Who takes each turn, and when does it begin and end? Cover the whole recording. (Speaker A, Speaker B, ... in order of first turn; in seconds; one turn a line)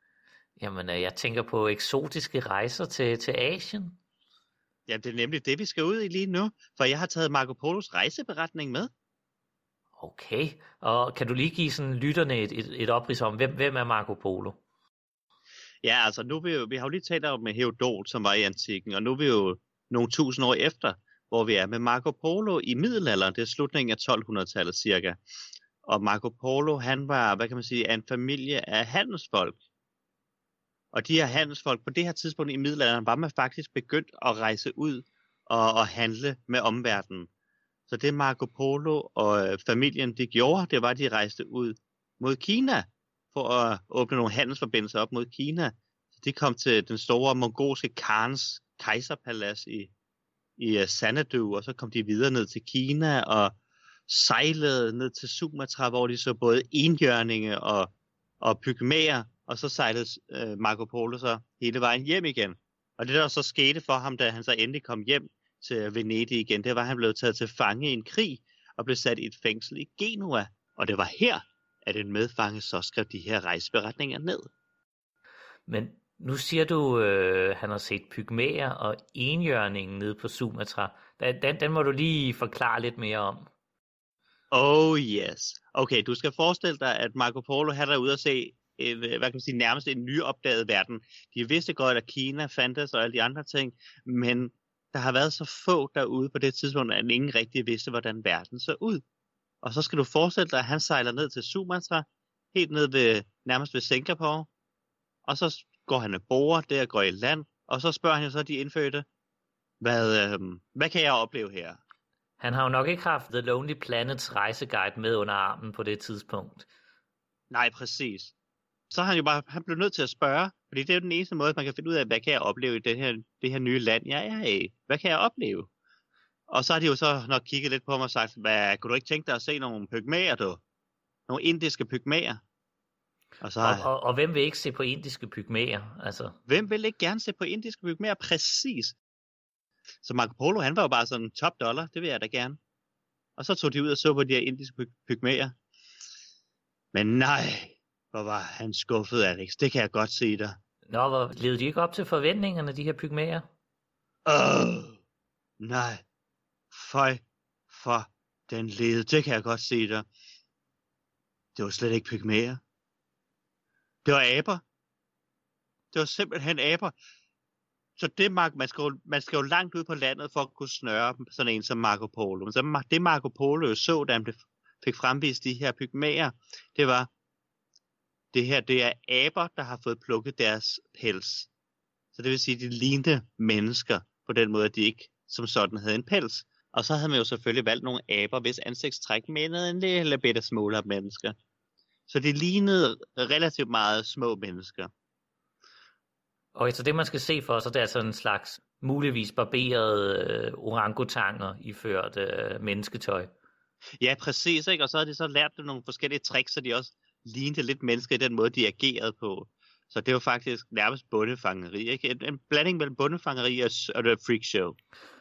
Speaker A: 0.6-4.0
Speaker B: 4.9-8.9
Speaker A: 10.0-14.6
Speaker B: 15.8-25.2
Speaker B: 25.9-29.6
Speaker B: 30.9-37.3
Speaker B: 37.9-49.9
Speaker B: 50.6-53.5
Speaker B: 54.1-57.9
Speaker B: 58.4-74.5
Speaker A: 75.7-83.5
Speaker B: 84.5-99.0
Speaker B: 99.6-104.5
Speaker B: 105.3-109.0
Speaker B: 109.8-111.8
Speaker A: 112.4-116.7
Speaker B: 117.5-118.3
Speaker B: 118.9-125.7
Speaker B: 126.5-130.6
Speaker B: 131.3-132.4
Speaker B: 133.4-133.9
Speaker A: 133.6-136.4
Speaker B: 136.5-139.0
Speaker B: 140.0-142.6
Speaker B: 143.4-145.6
Speaker B: 146.9-150.6
Speaker A: 150.9-153.5
Speaker B: 154.3-155.0
Speaker B: 155.6-156.0
Speaker B: 156.7-160.1
Speaker B: 161.6-162.6
Speaker B: 164.0-164.6
Speaker B: 165.9-166.9
Speaker B: 168.0-177.1
Speaker B: 178.3-181.5
Speaker B: 182.2-191.3
Speaker B: 192.1-194.9
Speaker A: 196.6-203.3
Speaker B: 204.0-214.8